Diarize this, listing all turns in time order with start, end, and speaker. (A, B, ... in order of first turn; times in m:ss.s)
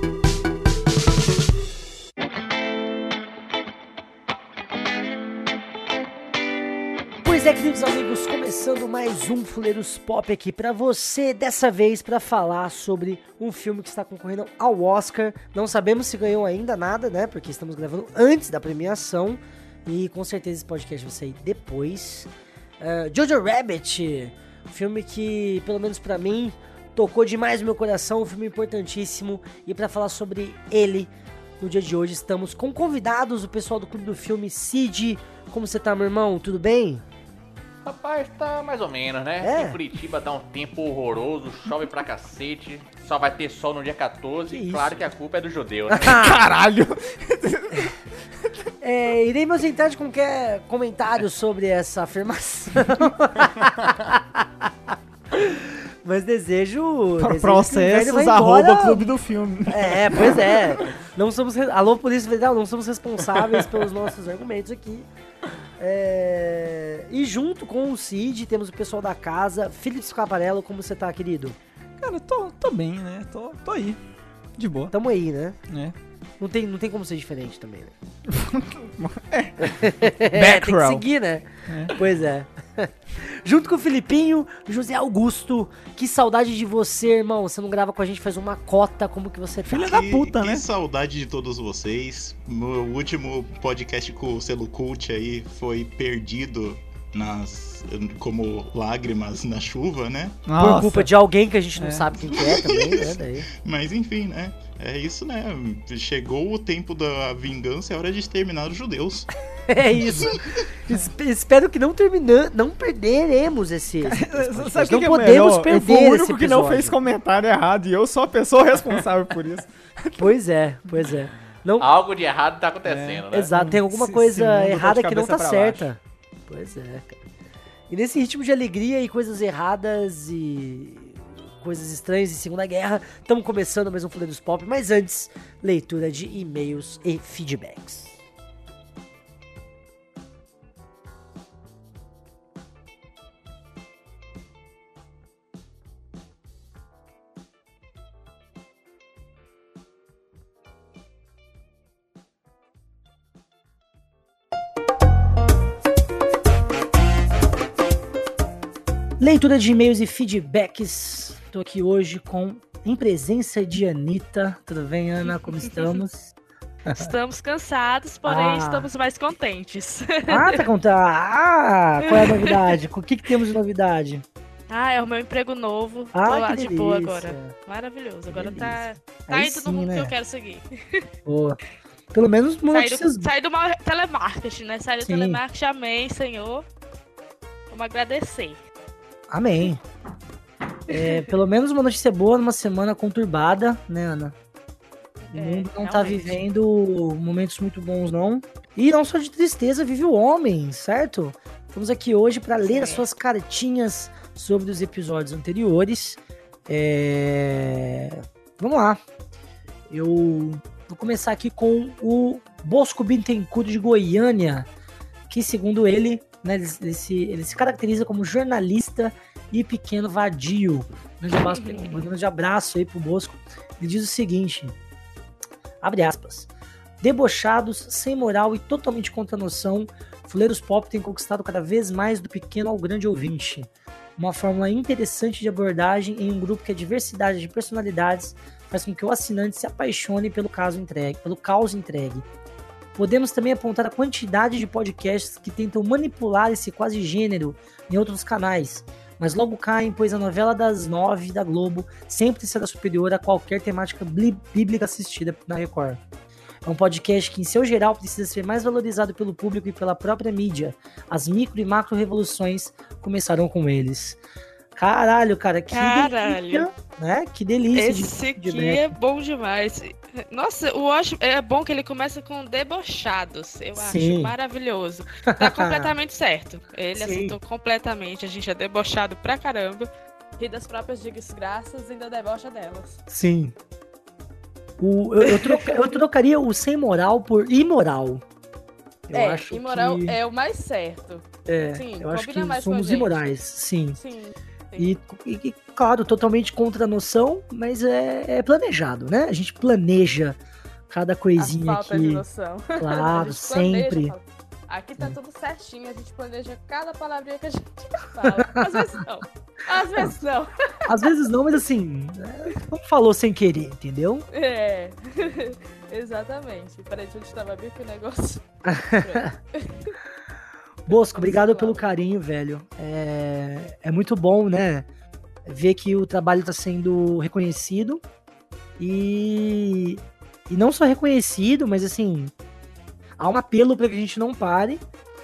0:07.2-0:37.0 A
0:37.8-0:46.1 B
0:39.4-0:39.8 A
0:44.5-0:45.0 A
0:45.9-0:46.4 A
0:46.0-0:48.5 C
0:48.8-0:54.4 A
0:55.3-0:59.1 A
0:57.2-1:00.9 C
0:59.7-1:05.1 A
1:05.8-1:11.6 A
1:12.0-1:14.0 C
1:14.6-1:14.9 C
1:14.9-1:15.6 A
1:15.7-1:16.0 C
1:16.4-1:17.9 A
1:18.3-1:21.1 C
1:19.6-1:29.9 A
1:21.7-1:22.0 C
1:29.7-1:30.7 C
1:29.7-1:40.4 D
1:40.5-1:41.1 C
1:40.6-1:43.5 A
1:41.8-1:42.1 C
1:42.3-1:49.4 D
1:49.7-1:57.0 A
1:49.9-1:50.3 C
1:54.1-2:00.3 C
2:00.2-2:01.9 A
2:01.8-2:03.5 B
2:02.8-2:05.9 C
2:03.3-2:07.1 A
2:07.9-2:18.2 A
2:39.2-2:46.3 A
2:45.4-2:46.0 E
2:46.9-2:47.1 A
2:47.0-2:50.6 E
2:48.3-2:48.9 A
2:50.3-2:54.2 A
2:52.0-2:52.8 E
2:54.7-3:01.0 E
2:56.1-2:57.6 A
2:58.3-3:00.1 A
3:01.3-3:01.6 A
3:02.1-3:03.3 A
3:02.7-3:06.6 E
3:05.0-3:05.4 A
3:07.7-3:08.6 E
3:09.3-3:09.8 A
3:10.9-3:11.4 E
3:10.9-3:14.4 A
3:15.2-3:16.4 E
3:15.3-3:29.0 A
3:22.6-3:23.1 E
3:29.9-3:34.7 A
3:35.3-3:44.8 A
3:41.3-3:42.1 E
3:45.8-3:46.5 A
3:47.0-4:02.2 A
4:03.0-4:16.0 A
4:16.6-4:24.2 A
4:24.8-4:28.9 A
4:25.7-4:26.7 E
4:27.7-4:39.9 E
4:33.7-4:34.3 A
4:35.3-4:35.9 A
4:37.0-4:37.4 A
4:40.4-4:43.0 E
4:43.1-4:43.6 A
4:44.8-4:48.2 A
4:45.2-4:46.0 E
4:49.1-4:50.2 A
4:49.1-4:53.2 E
4:51.5-4:54.0 A
4:54.0-4:55.0 E
4:54.8-5:00.4 A
5:00.9-5:02.2 A
5:01.4-5:11.1 E
5:02.8-5:04.1 A
5:08.2-5:08.7 A
5:10.9-5:14.3 A
5:14.3-5:18.4 E
5:18.7-5:19.3 A
5:19.0-5:19.9 E
5:20.9-5:24.9 A
5:20.9-5:21.8 E
5:25.5-5:28.0 A
5:28.8-5:32.3 A
5:33.2-5:34.8 A